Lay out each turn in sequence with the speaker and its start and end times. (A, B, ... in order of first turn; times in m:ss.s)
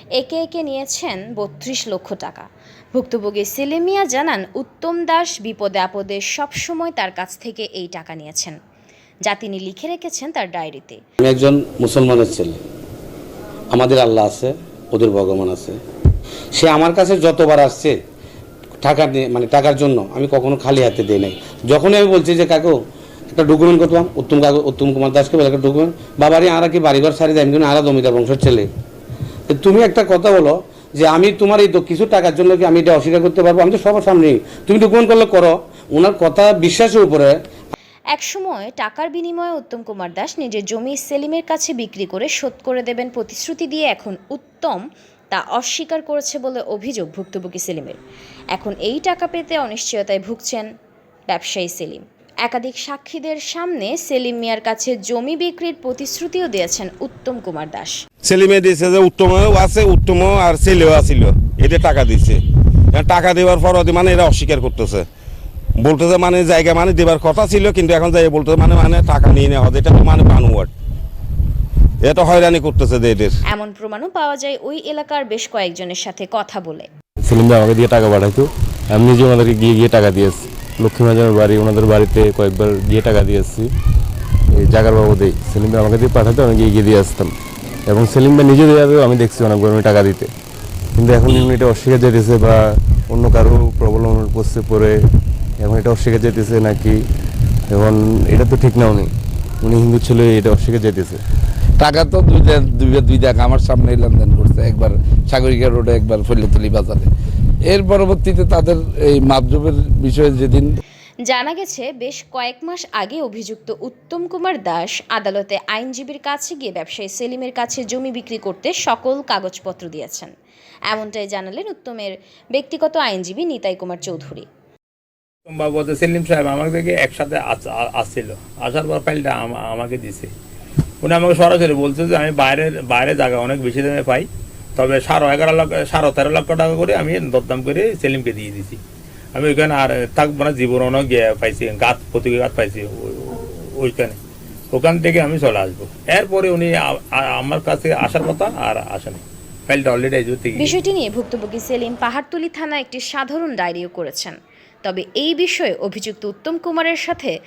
0:00.2-0:08.6 A
0:09.2-0:11.0 A
0:11.2-0:12.6 B
0:13.7-0:15.8 B
0:16.5-0:18.0 B
0:18.8-0:22.8 B
0:23.3-0:28.7 B
0:29.5-0:37.4 B
0:38.1-0:48.0 A
0:48.5-0:50.7 A
0:51.3-0:58.0 A
0:58.2-1:02.4 C
1:02.9-1:05.1 C
1:05.8-1:10.7 C
1:12.0-1:13.4 C
1:13.5-1:16.9 A
1:17.2-1:23.7 D
1:24.5-1:27.3 D
1:27.9-1:30.3 D
1:30.9-1:35.0 D
1:35.6-1:37.0 D
1:37.7-1:41.2 D
1:41.8-1:47.1 E
1:47.7-1:50.7 E
1:51.2-2:00.3 A
2:00.9-2:04.5 A
2:05.5-2:10.3 F
2:11.0-2:18.8 F
2:19.3-2:24.2 F
2:24.7-2:30.8 F
2:30.6-2:37.3 A